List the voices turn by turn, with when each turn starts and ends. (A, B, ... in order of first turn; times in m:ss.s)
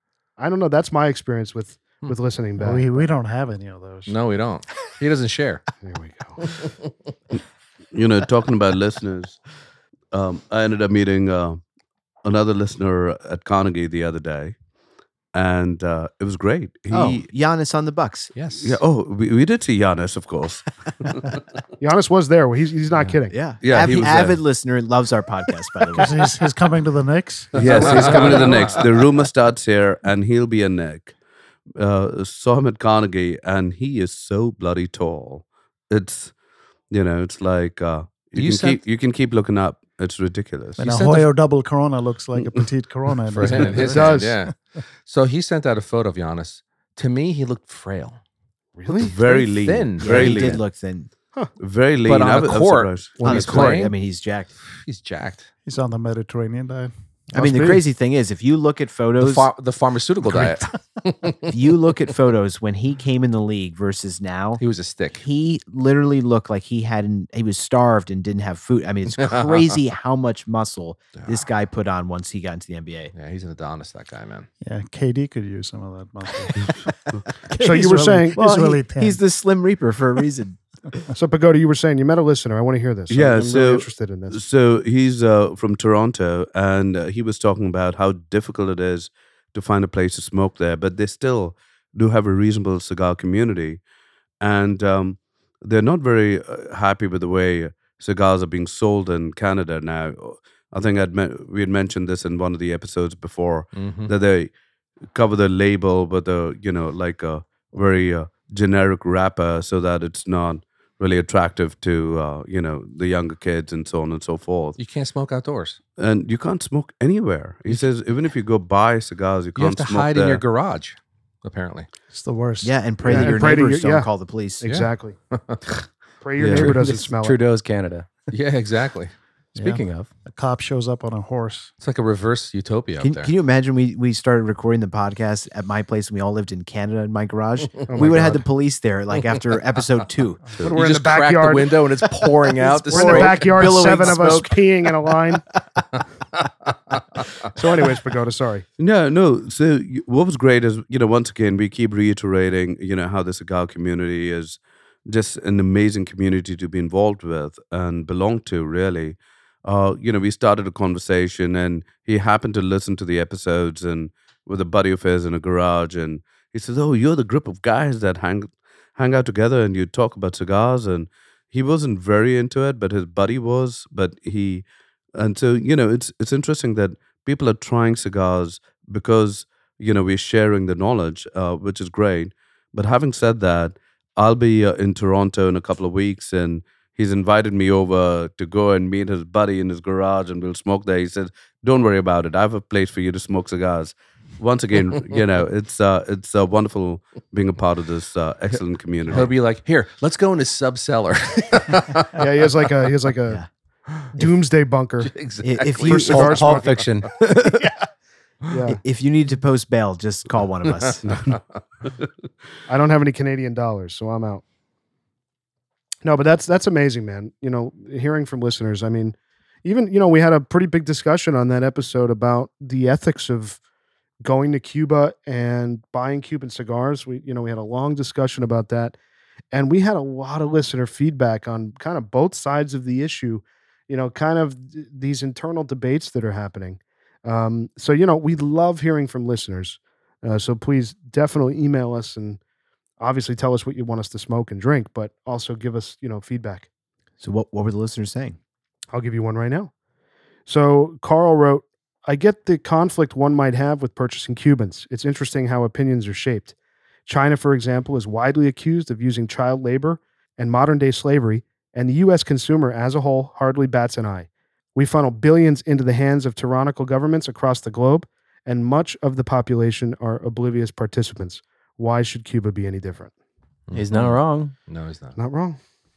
0:00.4-0:03.1 A
0:02.6-0:04.2 B
0:04.1-0:05.7 C
0:05.8-0:06.4 A
0:07.9-0:09.4 D
0:10.1-0:11.6 D
0:12.2-0:14.6 D
0:15.3-0:17.3 D
0:16.9-0:18.3 E
0:18.4-0:18.8 C
0:18.6-0:21.4 D
0:21.8-0:23.4 A
0:23.3-0:26.4 E
0:23.6-0:24.4 D
0:23.9-0:24.2 C
0:25.9-0:28.5 B
0:27.6-0:28.8 C
0:27.6-0:31.2 D
0:31.8-0:36.3 D
0:36.9-0:41.3 D
0:38.4-0:38.8 C
0:40.8-0:44.2 B
0:42.4-0:42.7 D
0:43.3-0:48.2 C
0:43.8-0:44.4 A
0:48.8-0:49.2 A
0:49.0-0:50.6 D
0:49.2-0:50.6 C
0:50.0-0:51.1 E
0:51.6-0:53.8 D
0:52.0-0:54.0 C
0:53.2-0:54.5 E
0:54.6-0:55.5 C
0:55.6-0:57.6 B
0:57.3-0:59.5 E
0:59.2-1:01.6 C
1:00.3-1:00.6 B
1:01.5-1:04.6 E
1:04.6-1:05.3 C
1:05.1-1:13.1 E
1:09.2-1:09.8 C
1:11.2-1:11.4 C
1:13.1-1:14.5 C
1:14.6-1:19.2 B
1:17.6-1:18.4 A
1:18.4-1:20.6 E
1:21.1-1:24.4 A
1:23.1-1:33.8 D
1:34.4-1:44.6 D
1:43.7-1:44.1 C
1:45.1-1:54.8 D
1:54.8-1:55.8 C
1:56.0-2:00.4 D
1:59.6-2:01.9 C
2:02.1-2:03.5 B
2:02.6-2:04.6 E
2:03.0-2:05.2 A
2:04.6-2:05.8 C
2:06.2-2:07.4 A
2:06.4-2:06.8 E
2:06.5-2:08.3 F
2:08.3-2:09.1 C
2:09.6-2:11.7 B
2:09.6-2:10.1 F
2:11.8-2:13.3 C
2:13.0-2:20.4 E
2:17.9-2:18.4 A
2:18.0-2:18.3 C
2:20.6-2:23.9 C
2:20.7-2:21.8 A
2:22.2-2:24.6 E
2:22.7-2:25.4 A
2:27.5-2:28.7 A
2:28.8-3:19.3 D
3:19.1-3:22.2 C
3:22.2-3:23.4 A
3:24.1-3:25.1 A
3:25.0-3:26.9 C
3:25.4-3:26.6 E
3:25.8-3:26.8 A
3:26.0-3:27.7 F
3:28.5-3:28.8 A
3:28.7-3:31.0 E
3:30.6-3:31.0 C
3:31.1-3:31.4 D
3:32.7-3:34.4 A
3:36.0-3:43.6 A
3:44.2-3:49.0 A
3:49.5-4:02.4 A
4:03.0-4:06.7 A
4:07.2-4:08.4 E
4:08.9-4:09.7 A
4:10.5-4:16.6 A
4:17.1-4:33.1 A
4:33.7-4:35.2 C
4:33.7-4:34.5 F
4:35.2-4:35.6 A